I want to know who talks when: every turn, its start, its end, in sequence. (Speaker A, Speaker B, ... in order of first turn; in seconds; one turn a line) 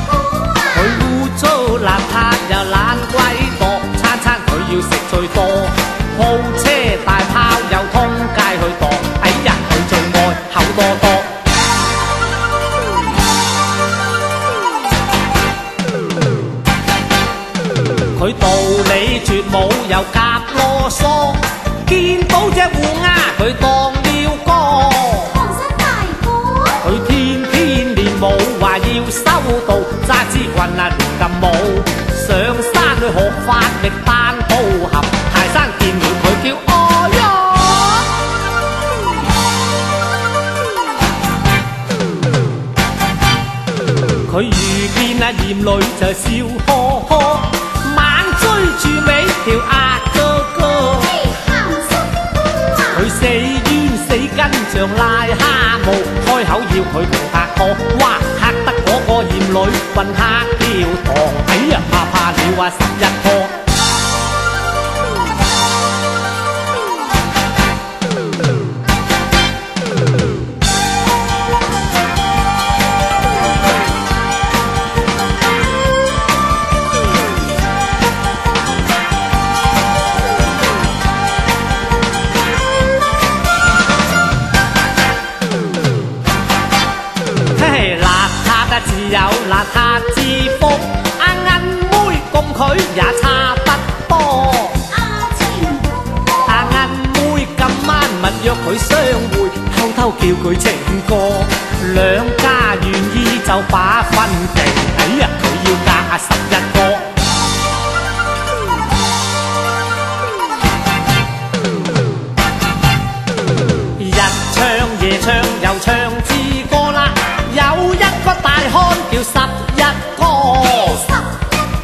Speaker A: 0.7-11.4
Speaker A: 18.1-25.7
Speaker A: 26.8-38.1
Speaker A: 44.3-51.4
Speaker A: 52.8-63.6
Speaker A: 87.5-94.9
Speaker A: 96.4-107.1
Speaker A: 114.0-121.2